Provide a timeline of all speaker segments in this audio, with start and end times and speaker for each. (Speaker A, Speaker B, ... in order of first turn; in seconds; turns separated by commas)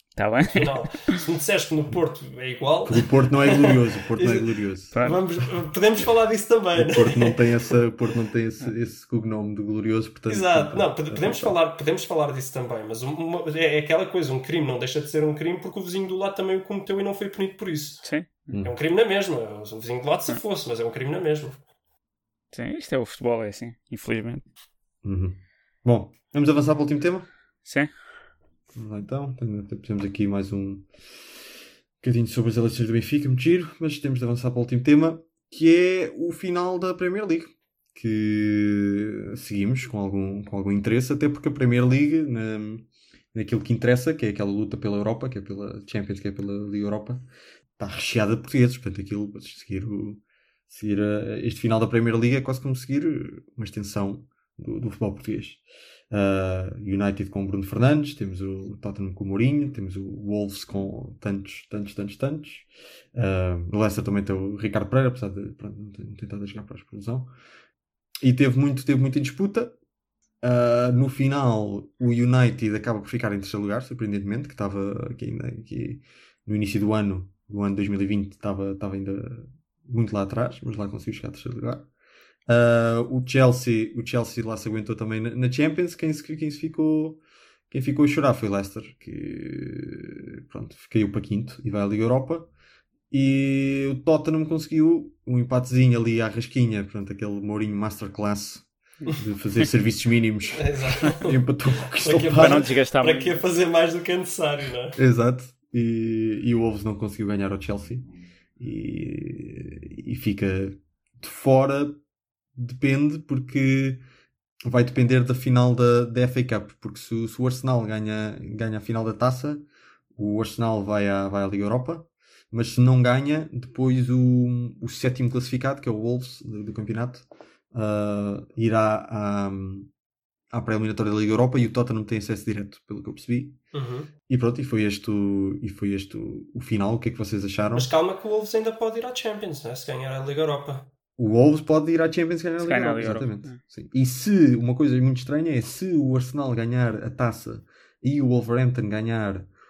Speaker A: 0.1-0.7, Speaker B: 0.5-7.7, Speaker C: 2.8-5.0, Speaker A: 4.9-5.2, Speaker C: 6.8-11.6, Speaker B: 10.3-18.1, Speaker A: 18.0-18.5, Speaker C: 18.5-18.7, Speaker B: 18.6-21.6, Speaker A: 22.5-24.4, Speaker C: 25.0-27.3, Speaker A: 27.6-27.9, Speaker C: 28.7-30.9, Speaker C: 32.0-47.2, Speaker C: 47.8-67.3, Speaker C: 68.2-69.7, Speaker C: 70.4-81.9, Speaker C: 82.5-92.5, Speaker C: 93.1-102.6, Speaker B: 100.5-101.4, Speaker B: 101.9-105.0, Speaker A: 102.3-103.4, Speaker C: 105.0-112.0, Speaker C: 112.5-114.0, Speaker C: 114.6-119.6, Speaker C: 120.2-129.9, Speaker C: 130.5-133.6, Speaker B: 133.7-134.1, Speaker C: 134.3-137.9, Speaker B: 137.7-140.9, Speaker C: 141.2-149.5, Speaker A: 142.6-143.6